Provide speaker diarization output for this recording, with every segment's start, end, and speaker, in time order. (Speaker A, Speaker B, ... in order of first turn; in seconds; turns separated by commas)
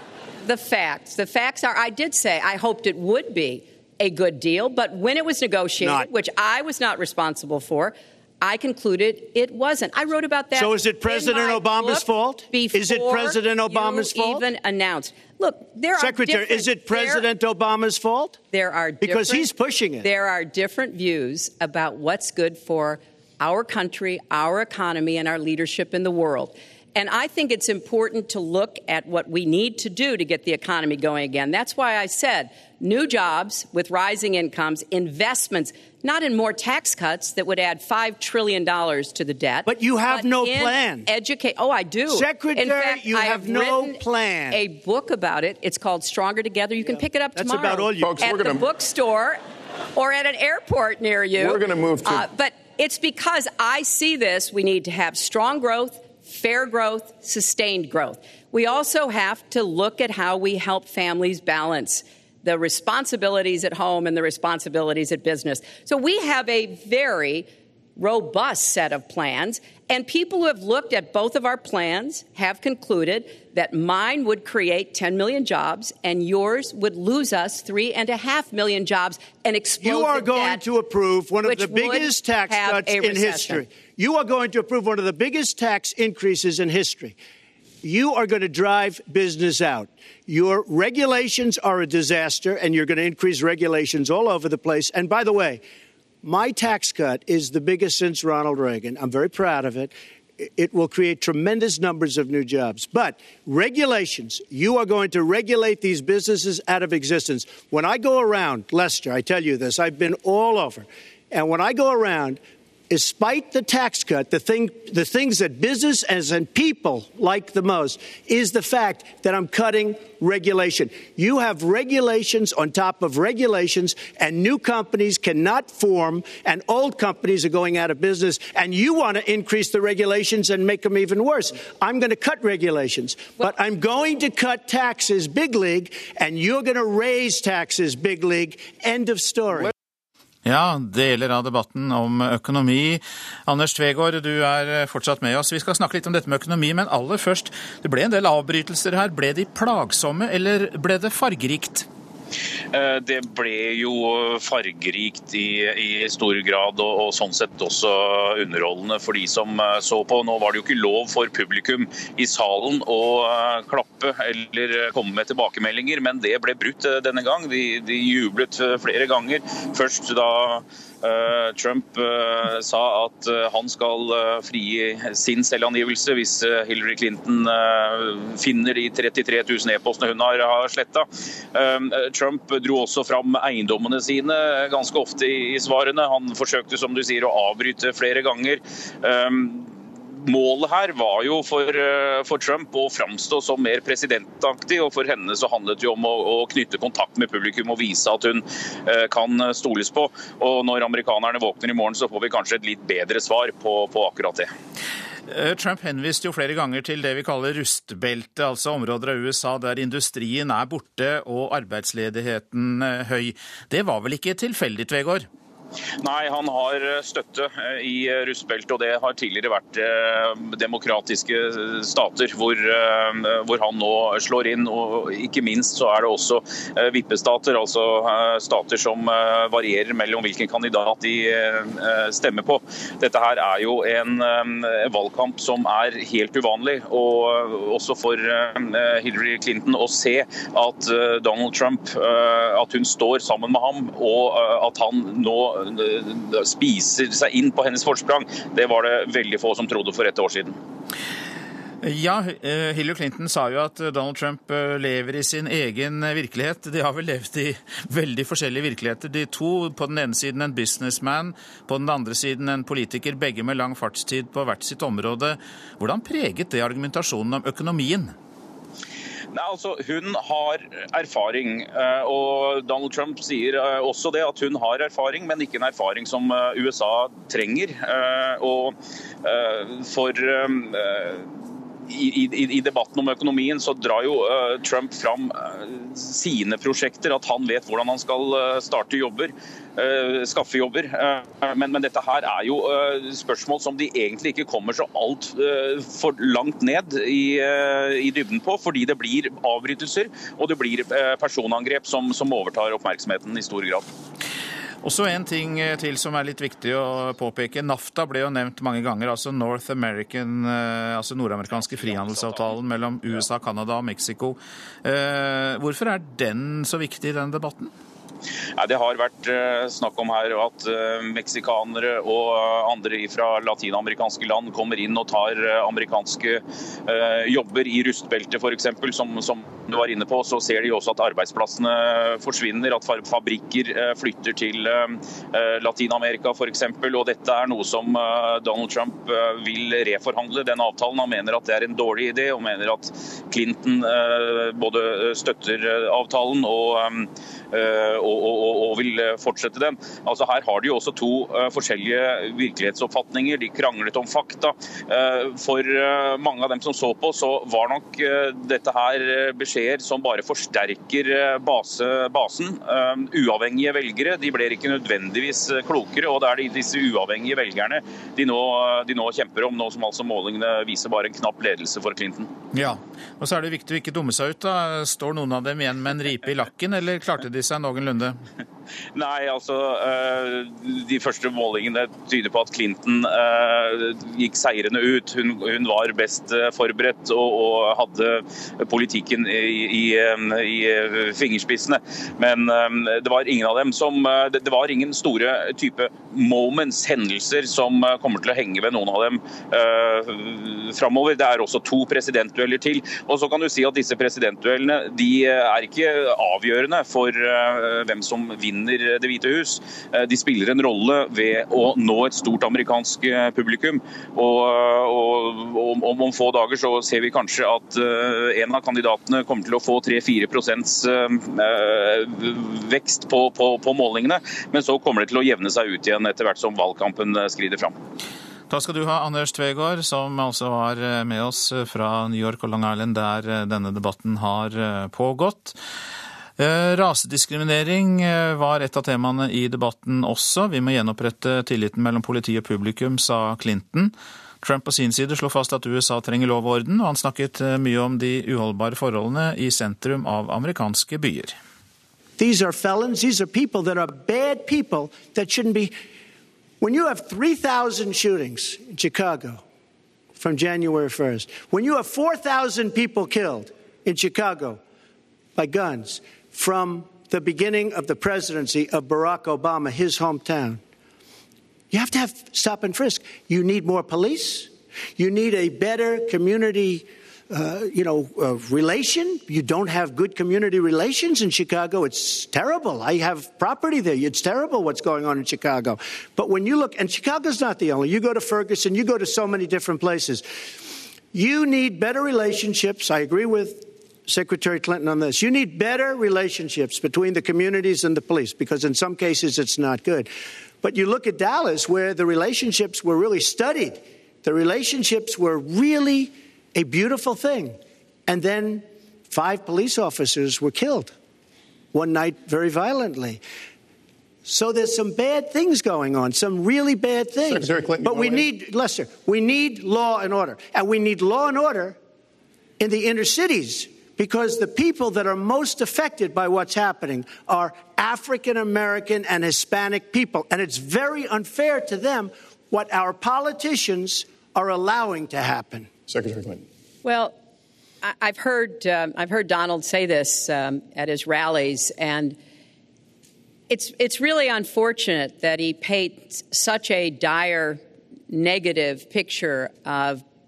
Speaker A: 0.4-17.2, Speaker B: 5.8-6.1, Speaker B: 10.6-14.4, Speaker B: 16.0-18.4, Speaker A: 18.5-19.5, Speaker B: 19.0-20.1, Speaker A: 20.0-49.4, Speaker B: 39.7-41.1, Speaker B: 42.1-44.6, Speaker B: 47.4-48.3, Speaker C: 48.0-48.7, Speaker A: 49.9-67.5, Speaker C: 51.4-52.2, Speaker A: 68.0-80.6, Speaker B: 79.8-87.2, Speaker A: 81.4-83.7, Speaker B: 87.8-95.6, Speaker B: 96.2-139.7, Speaker D: 140.4-151.9, Speaker E: 152.7-189.7, Speaker E: 190.2-204.5, Speaker D: 205.3-215.3, Speaker E: 216.0-250.6, Speaker D: 251.8-268.1, Speaker E: 269.3-281.3, Speaker E: 281.9-303.9, Speaker D: 304.8-317.7, Speaker E: 318.6-372.3, Speaker D: 372.5-378.2, Speaker E: 378.9-427.8, Speaker D: 428.5-435.6, Speaker D: 436.4-451.3, Speaker B: 452.2-455.7, Speaker B: 456.6-459.4, Speaker B: 460.2-464.6, Speaker B: 465.4-470.6, Speaker B: 471.7-490.2, Speaker B: 491.1-500.1, Speaker B: 500.6-510.9, Speaker B: 511.7-513.2, Speaker B: 514.3-521.8, Speaker C: 517.3-518.3, Speaker B: 522.6-535.7, Speaker C: 535.9-536.4, Speaker A: 536.8-537.1, Speaker A: 537.8-542.1, Speaker A: 543.5-550.0